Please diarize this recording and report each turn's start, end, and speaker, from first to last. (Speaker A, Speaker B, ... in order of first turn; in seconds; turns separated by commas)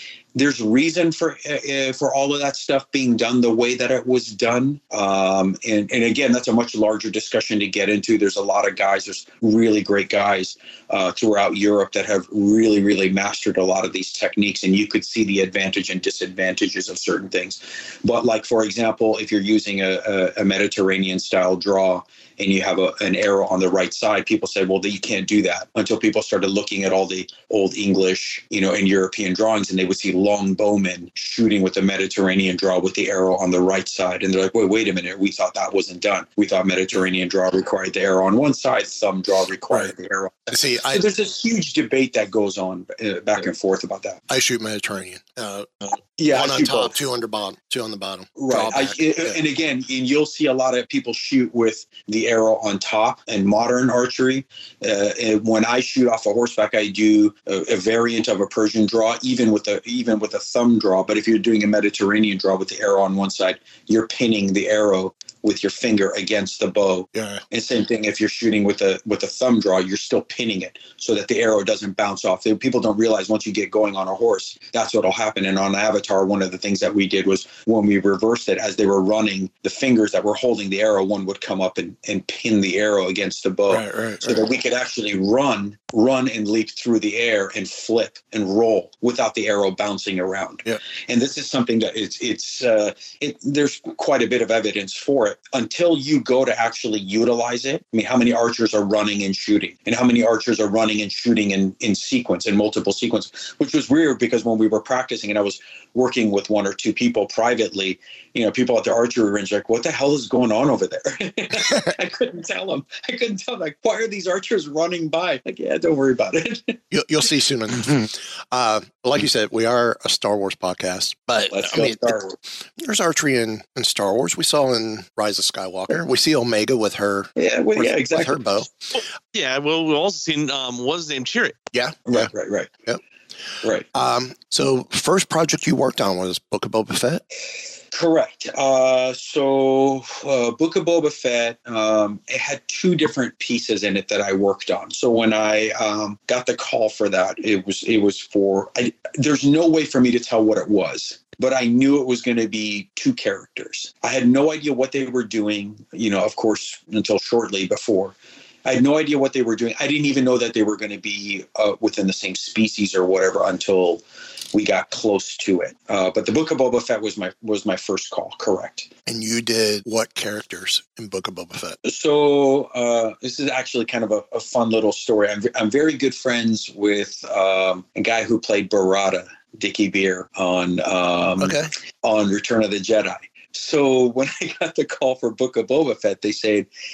Speaker A: 0.3-44.2, Speaker B: 39.7-40.0, Speaker B: 40.5-41.1, Speaker B: 44.3-49.4, Speaker A: 46.2-47.0, Speaker A: 48.4-116.8, Speaker B: 67.1-67.4, Speaker B: 83.7-84.4, Speaker B: 116.9-122.2, Speaker A: 121.5-122.3, Speaker B: 122.8-128.7, Speaker A: 127.4-128.6, Speaker C: 129.3-131.6, Speaker B: 131.7-132.3, Speaker A: 132.1-132.7, Speaker B: 133.9-137.2, Speaker A: 137.9-168.9, Speaker B: 169.1-171.8, Speaker A: 171.8-186.7, Speaker B: 181.4-181.7